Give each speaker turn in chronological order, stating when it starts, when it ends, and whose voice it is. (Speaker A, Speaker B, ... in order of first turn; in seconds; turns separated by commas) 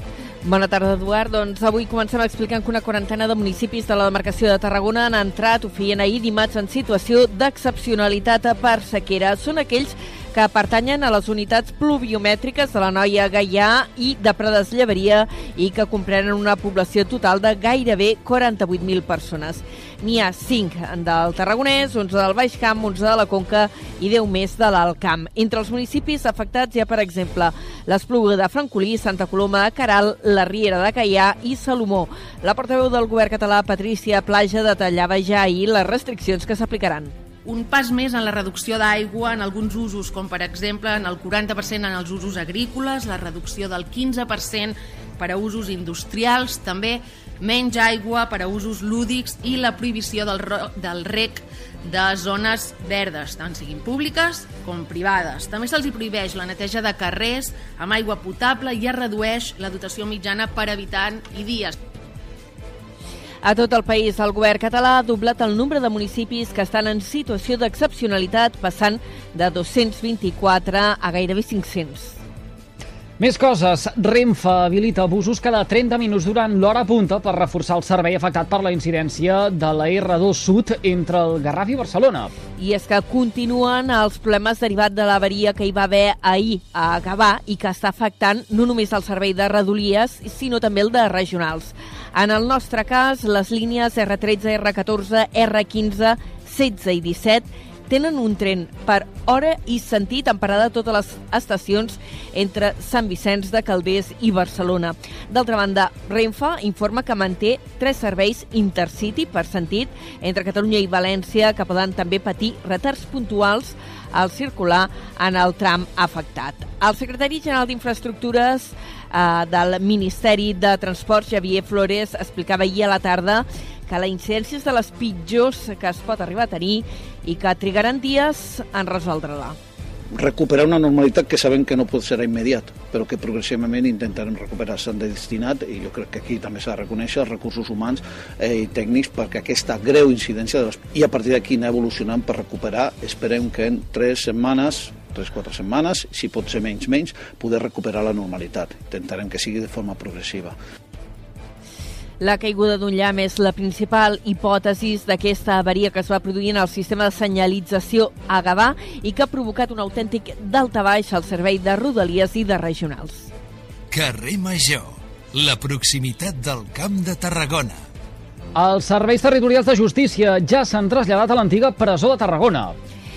Speaker A: 0.4-37.1, Speaker B: 37.4-61.8, Speaker A: 63.4-72.2, Speaker C: 73.2-82.3, Speaker A: 82.6-129.6, Speaker D: 130.2-150.5, Speaker A: 152.2-163.3, Speaker E: 163.9-167.8, Speaker C: 168.5-172.8